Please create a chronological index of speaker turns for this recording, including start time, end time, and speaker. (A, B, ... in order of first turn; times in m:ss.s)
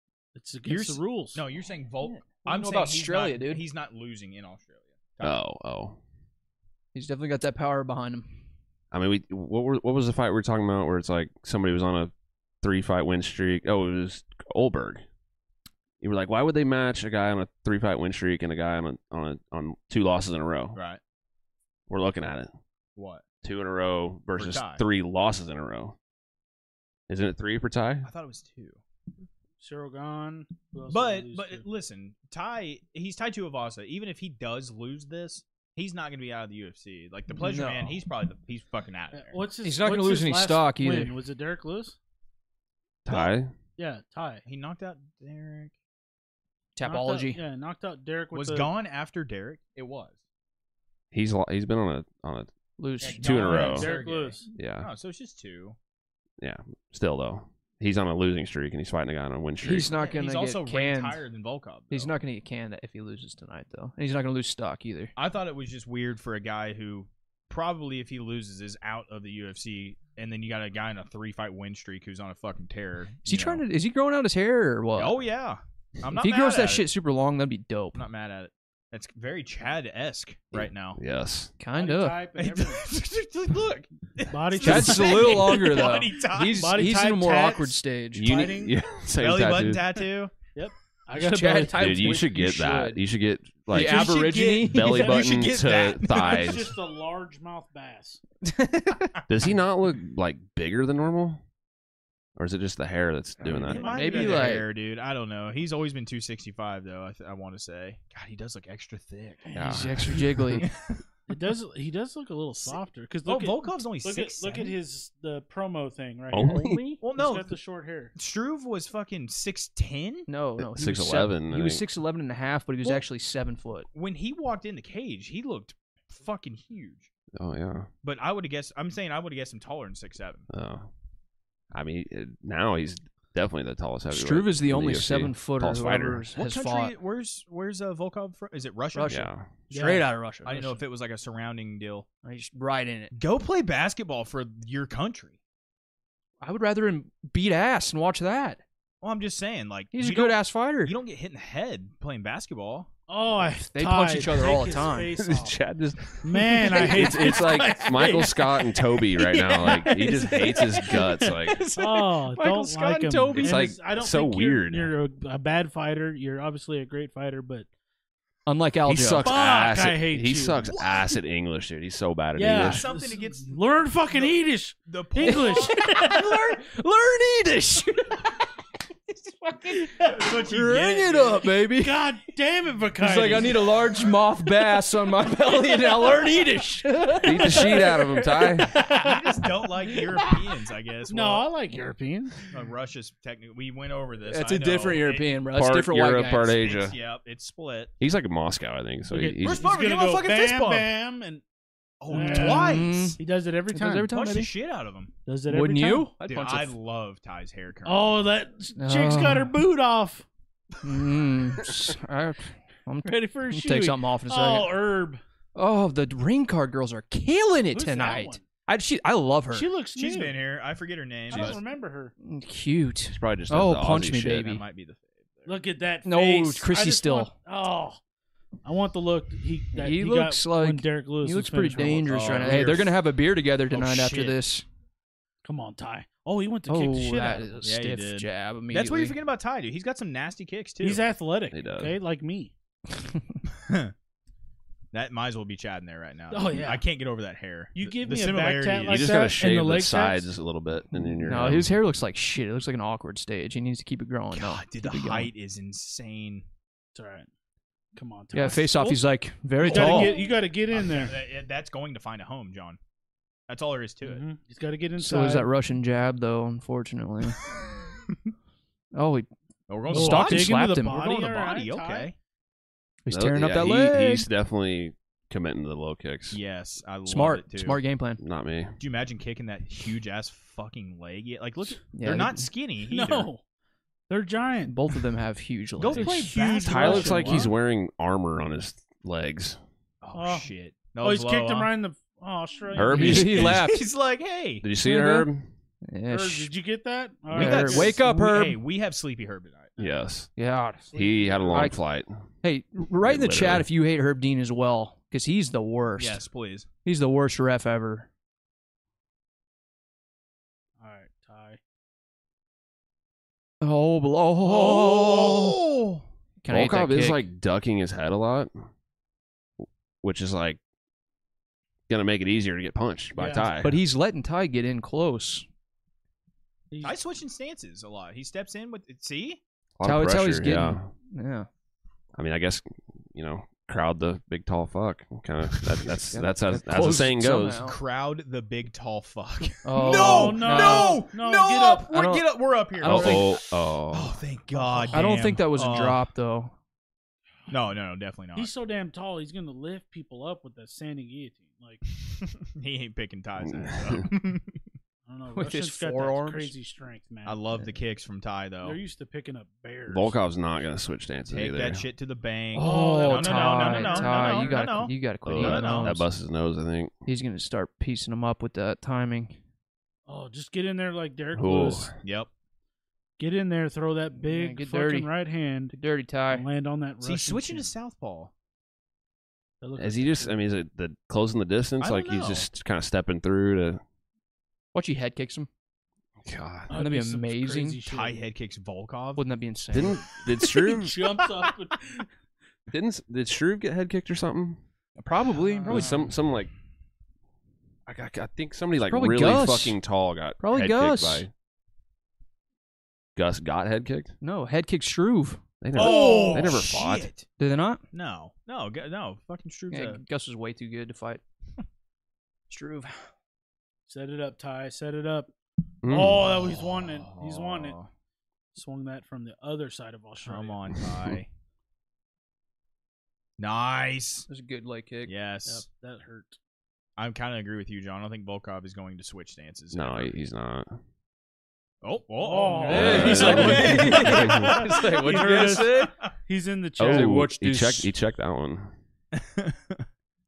0:00.4-0:01.4 A
0:00.7-0:05.4 B
0:02.0-0:03.6 C
0:05.2-0:06.0 D
0:06.9-0:08.4 C
0:08.9-0:15.0 D
0:16.0-0:20.8 D
0:20.7-0:21.0 B
0:21.9-0:22.5 D
0:23.0-0:23.2 B
0:23.4-0:26.0 D
0:24.4-0:24.8 B
0:27.1-0:28.1 D
0:28.0-0:28.8 B
0:29.6-0:31.6 A
0:30.9-0:39.4 B
0:37.4-0:38.0 C
0:39.1-0:42.0 A
0:39.6-0:41.1 C
0:43.0-0:43.5 D
0:43.1-0:43.3 B
0:43.8-0:44.4 A
0:44.4-0:45.7 B
0:46.8-0:47.4 C
0:46.8-0:48.7 A
0:48.3-0:50.2 B
0:51.1-0:52.5 D
0:52.8-0:53.5 C
0:53.0-0:55.8 B
0:53.1-0:53.9 D
0:53.4-0:54.5 A
0:54.6-0:54.9 D
0:56.4-0:59.9 D
0:59.6-1:01.2 C
0:59.9-1:02.1 B
1:01.9-1:05.1 C
1:05.2-1:13.6 B
1:13.2-1:15.2 C
1:15.0-1:16.8 B
1:16.1-1:18.0 C
1:18.0-1:21.0 B
1:20.5-1:21.5 D
1:21.6-1:22.2 C
1:21.8-1:22.8 A
1:22.4-1:26.7 B
1:24.3-1:25.7 A
1:24.6-1:28.3 C
1:26.4-1:28.8 A
1:28.2-1:29.8 D
1:29.2-1:30.3 B
1:30.6-1:32.2 A
1:31.2-1:33.0 C
1:31.8-1:36.7 D
1:33.7-1:35.2 C
1:33.7-1:36.6 B
1:36.1-1:38.2 A
1:38.4-1:39.1 C
1:39.3-1:41.4 D
1:42.4-1:43.9 D
1:43.5-1:49.5 B
1:43.7-1:44.5 A
1:43.7-1:44.7 C
1:49.4-1:50.3 A
1:49.6-1:50.3 D
1:49.6-1:50.7 C
1:50.6-1:51.0 B
1:51.3-1:58.1 A
1:52.6-1:54.8 B
1:56.3-1:56.8 D
1:56.4-1:57.0 C
1:57.0-1:57.6 B
1:58.2-2:00.3 B
2:00.3-2:03.9 C
2:00.6-2:01.8 D
2:03.9-2:07.1 B
2:07.4-2:07.9 D
2:08.0-2:10.5 B
2:10.5-2:10.9 D
2:11.7-2:16.3 D
2:14.1-2:17.0 C
2:16.4-2:19.3 B
2:18.9-2:20.8 C
2:19.1-2:19.5 D
2:19.7-2:20.2 A
2:20.4-2:22.1 B
2:22.2-2:23.1 C
2:23.1-2:25.4 B
2:26.4-2:28.6 C
2:29.0-2:32.9 B
2:29.9-2:31.0 C
2:33.1-2:35.6 A
2:33.7-2:35.1 C
2:35.2-2:41.6 D
2:36.2-2:47.7 A
2:41.4-2:43.7 C
2:43.4-2:45.0 D
2:48.5-2:49.3 C
2:48.9-2:52.8 D
2:49.2-2:50.7 A
2:52.4-2:56.6 A
2:52.5-2:53.6 B
2:54.1-2:55.8 B
2:55.2-2:58.4 C
2:59.1-3:02.0 C
3:00.0-3:00.3 A
3:00.0-3:01.5 B
3:01.7-3:03.7 A
3:03.0-3:08.7 C
3:07.2-3:08.8 D
3:07.3-3:10.2 A
3:08.8-3:11.5 B
3:11.1-3:12.5 A
3:12.5-3:15.4 B
3:14.3-3:16.6 C
3:15.5-3:17.0 D
3:16.5-3:17.9 B
3:18.0-3:19.6 D
3:19.1-3:21.4 A
3:19.4-3:20.9 B
3:22.0-3:23.2 B
3:22.1-3:24.1 A
3:22.2-3:24.5 C
3:24.1-3:25.1 B
3:25.3-3:26.1 A
3:25.5-3:26.8 C
3:26.3-3:28.2 B
3:27.8-3:30.2 A
3:28.8-3:29.6 C
3:30.8-3:34.8 C
3:33.0-3:35.2 A
3:35.6-3:39.7 C
3:37.7-3:38.4 A
3:39.5-3:40.4 A
3:40.0-3:41.6 B
3:41.3-3:42.1 A
3:42.2-3:44.6 C
3:43.1-3:44.5 D
3:44.3-3:45.6 B
3:45.5-3:48.0 A
3:46.0-3:47.3 C
3:48.6-3:52.7 A
3:49.8-3:54.6 C
3:52.1-3:53.0 B
3:53.7-3:54.4 B
3:55.4-3:57.6 A
3:56.7-3:59.2 C
3:57.6-4:01.0 B
4:00.8-4:02.5 A
4:01.5-4:02.0 D
4:03.5-4:03.9 B
4:04.9-4:09.1 B
4:06.3-4:06.8 A
4:07.8-4:10.3 A
4:08.9-4:11.7 D
4:11.2-4:15.3 C
4:14.3-4:16.4 B
4:17.0-4:17.3 A
4:18.0-4:19.0 A
4:18.3-4:20.2 C
4:19.6-4:22.8 B
4:19.6-4:21.2 A
4:23.5-4:24.2 B
4:24.0-4:25.5 A
4:25.0-4:27.4 C
4:29.0-4:29.3 C
4:29.7-4:32.2 B
4:29.9-4:31.0 C
4:29.9-4:32.1 A
4:33.0-4:34.3 C
4:33.1-4:36.4 D
4:36.3-4:37.8 B
4:37.1-4:38.2 C
4:38.2-4:38.7 D
4:38.8-4:43.3 B
4:41.9-4:42.5 C
4:42.9-4:43.4 A
4:44.1-4:44.8 A
4:44.7-4:46.3 C
4:45.8-4:47.5 B
4:45.9-4:47.5 A
4:46.6-4:49.6 D
4:50.0-4:51.7 B
4:50.2-4:50.5 A
4:51.0-4:53.3 A
4:52.7-4:53.6 D
4:52.9-4:53.9 C
4:53.3-4:54.6 B
4:54.6-4:55.5 D
4:54.8-4:55.3 C
4:55.9-4:56.5 C
4:56.1-4:58.0 A
4:57.3-4:58.6 C
4:57.3-5:00.0 B
4:59.8-5:00.3 D
5:00.4-5:00.9 C
5:00.9-5:01.7 B
5:00.9-5:02.1 D
5:01.5-5:01.8 C
5:02.4-5:06.2 C
5:03.0-5:03.6 D
5:06.0-5:06.7 B
5:06.8-5:08.1 C
5:10.8-5:11.6 A
5:13.6-5:15.6 C
5:14.4-5:16.0 B
5:16.4-5:17.2 C
5:16.5-5:18.5 D
5:20.0-5:20.6 D
5:21.9-5:23.8 D
5:23.2-5:23.5 A
5:23.6-5:25.5 C
5:26.7-5:27.0 A
5:26.8-5:29.4 B
5:29.8-5:30.9 D
5:29.8-5:31.5 C
5:32.2-5:37.6 D
5:35.9-5:37.8 C
5:37.5-5:46.0 B
5:39.6-5:41.0 C
5:39.8-5:41.9 A
5:41.9-5:42.3 C
5:42.8-5:44.2 D
5:42.8-5:43.3 C
5:44.5-5:45.4 A
5:44.9-5:46.5 C
5:47.5-5:48.5 B
5:48.4-5:51.8 A
5:52.1-5:54.5 B
5:53.4-5:54.1 D
5:55.1-5:57.4 A
5:55.3-5:56.5 C
5:57.2-5:58.8 B
5:58.6-6:00.2 A
5:59.9-6:01.8 D
6:01.3-6:06.0 B
6:02.6-6:06.1 C
6:02.6-6:04.8 A
6:05.2-6:06.9 D
6:07.1-6:09.4 C
6:10.1-6:11.9 A
6:11.3-6:11.9 D
6:12.0-6:12.3 B
6:13.2-6:15.8 A
6:14.2-6:15.1 C
6:15.7-6:16.5 C
6:16.3-6:17.7 A
6:17.0-6:18.3 B
6:19.6-6:20.4 A
6:19.8-6:23.8 D
6:21.8-6:22.5 B
6:24.7-6:25.5 C
6:26.2-6:26.7 D
6:26.7-6:28.3 A
6:26.7-6:27.8 C
6:27.9-6:29.2 B
6:29.2-6:30.0 C
6:29.7-6:31.0 D
6:30.5-6:32.1 A
6:32.7-6:34.6 D
6:35.0-6:36.0 C
6:35.2-6:36.0 B
6:35.6-6:36.0 A
6:35.7-6:36.5 D
6:37.9-6:41.3 D
6:38.8-6:39.8 C
6:40.4-6:41.3 C
6:43.2-6:44.1 D
6:44.2-6:45.4 C
6:45.6-6:47.1 D
6:45.8-6:47.3 B
6:45.8-6:46.6 A
6:47.4-6:47.8 C
6:47.9-6:50.0 B
6:49.7-6:51.2 C
6:52.5-6:53.1 C
6:53.9-6:55.3 A
6:55.8-6:56.5 D
6:55.8-6:57.8 A
6:56.9-6:57.9 B
6:58.6-7:00.8 A
7:00.2-7:01.3 B
7:03.4-7:04.3 B
7:04.3-7:05.1 C
7:05.1-7:05.6 B
7:05.5-7:06.4 A
7:07.0-7:10.1 B
7:09.7-7:10.7 D
7:11.8-7:16.1 B
7:12.2-7:17.2 A
7:12.6-7:15.9 C
7:12.7-7:14.6 D
7:16.8-7:18.8 D
7:16.8-7:17.9 C
7:19.1-7:19.8 B